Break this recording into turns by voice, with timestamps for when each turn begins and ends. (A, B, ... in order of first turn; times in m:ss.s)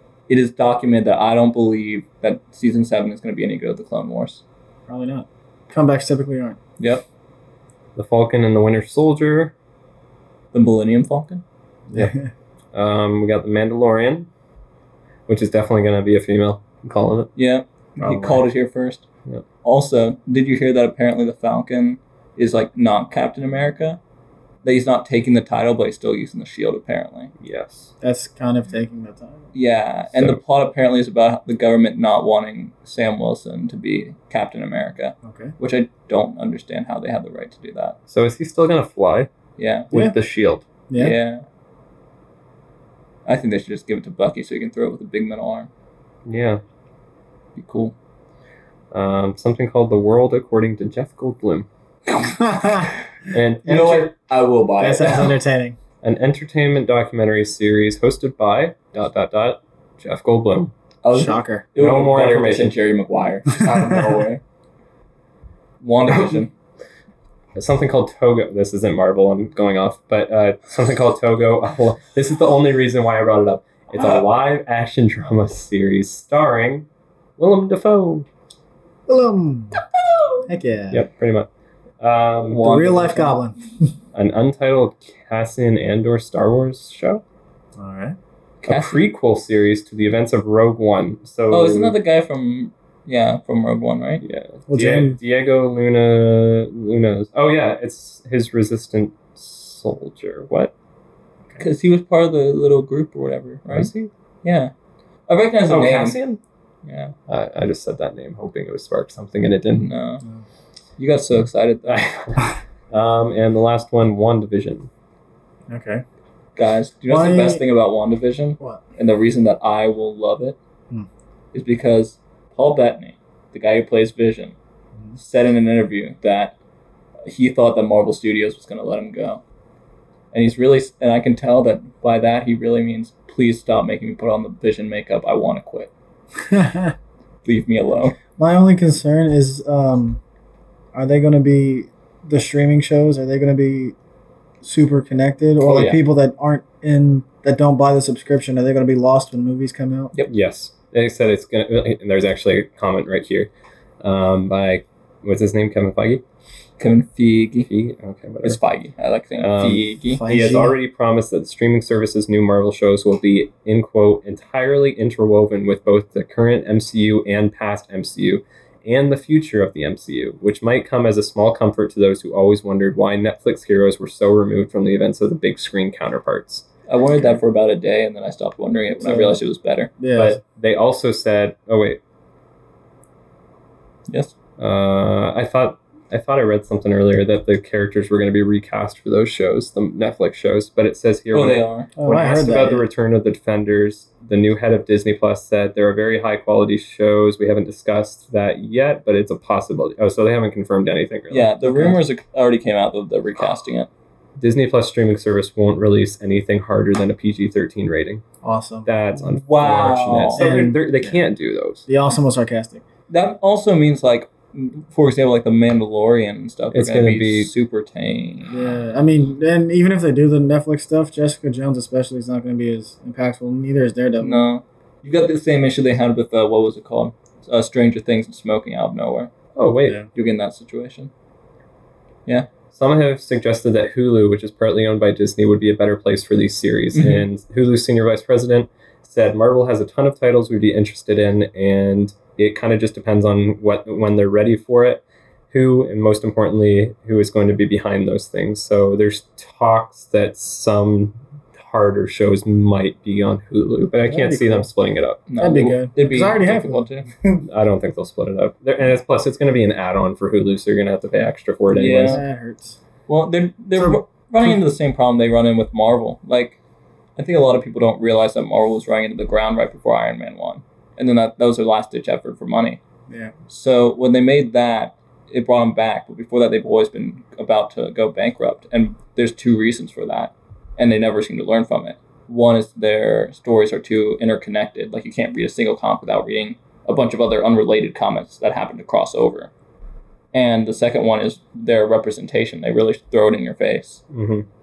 0:00.3-0:04.4 A
0:04.9-0:06.6 B
0:06.8-0:07.0 A
0:08.0-0:09.5 C
0:10.5-0:11.4 A
0:11.9-0:12.3 B
0:12.7-0:14.3 C
0:15.3-0:17.3 C
0:17.4-0:19.1 A
0:18.0-0:18.4 B
0:19.6-0:24.0 A
0:24.6-0:27.3 A
0:27.4-0:27.9 C
0:28.0-0:29.5 B
0:29.5-0:38.0 A
0:30.1-0:30.4 C
0:35.2-0:35.5 B
0:38.1-0:39.3 C
0:39.6-0:39.9 A
0:39.9-0:40.6 C
0:41.0-0:41.4 A
0:43.2-0:45.7 A
0:46.2-0:46.6 C
0:47.6-0:47.9 A
0:48.9-0:51.7 C
0:52.2-0:52.9 B
0:53.3-0:54.1 C
0:53.6-0:55.3 A
0:54.8-0:55.8 B
0:56.0-1:00.7 C
1:01.0-1:04.4 A
1:01.1-1:01.7 B
1:01.8-1:02.8 C
1:05.8-1:06.5 A
1:06.1-1:06.4 C
1:07.6-1:16.9 C
1:17.4-1:18.3 C
1:19.1-1:19.8 B
1:20.1-1:20.4 A
1:20.4-1:21.0 B
1:20.9-1:21.5 C
1:22.0-1:22.7 C
1:22.5-1:23.4 A
1:22.6-1:23.6 B
1:24.1-1:27.2 C
1:27.8-1:28.2 B
1:28.6-1:32.0 C
1:28.6-1:29.0 A
1:31.5-1:34.2 A
1:34.2-1:40.7 C
1:34.7-1:35.2 B
1:41.6-1:43.9 A
1:43.7-1:44.1 C
1:44.4-1:44.7 A
1:45.3-1:46.2 A
1:45.7-1:46.4 C
1:46.8-1:47.1 A
1:47.3-1:49.9 C
1:49.8-1:50.2 A
1:51.0-1:52.1 A
1:51.9-1:54.9 C
1:55.7-1:56.0 B
1:56.6-2:00.6 A
1:57.1-1:57.6 B
2:01.5-2:04.5 A
2:05.2-2:06.5 A
2:07.3-2:09.4 A
2:10.3-2:15.9 A
2:16.4-2:16.9 B
2:17.4-2:18.2 A
2:18.4-2:20.2 B
2:20.9-2:23.9 B
2:24.6-2:30.1 B
2:25.6-2:26.0 A
2:30.3-2:33.5 C
2:34.0-2:36.2 C
2:36.8-2:37.7 A
2:37.7-2:38.6 C
2:38.4-2:40.2 A
2:39.4-2:56.7 C
2:40.1-2:40.8 B
2:56.9-2:59.9 A
2:59.0-2:59.4 B
3:00.0-3:00.4 B
3:00.1-3:02.0 C
3:04.1-3:04.3 A
3:04.6-3:21.9 C
3:11.3-3:11.9 A
3:12.0-3:12.8 B
3:21.3-3:23.9 A
3:24.4-3:28.2 C
3:28.4-3:28.9 B
3:28.8-3:31.9 C
3:29.2-3:30.4 A
3:30.3-3:31.2 B
3:31.9-3:32.8 B
3:33.1-3:38.6 A
3:36.7-3:37.5 C
3:38.5-3:44.5 B
3:44.2-3:49.3 A
3:49.5-3:50.0 C
3:50.1-3:51.1 A
3:52.7-4:15.2 C
3:56.9-3:57.2 A
4:14.1-4:14.7 B
4:15.3-4:17.1 A
4:15.4-4:17.4 B
4:17.4-4:22.2 C
4:21.7-4:22.2 A
4:22.0-4:22.8 B
4:23.1-4:26.6 A
4:23.8-4:24.6 B
4:27.2-4:32.8 A
4:33.5-4:49.5 A
4:50.3-4:54.0 A
4:54.1-4:54.4 C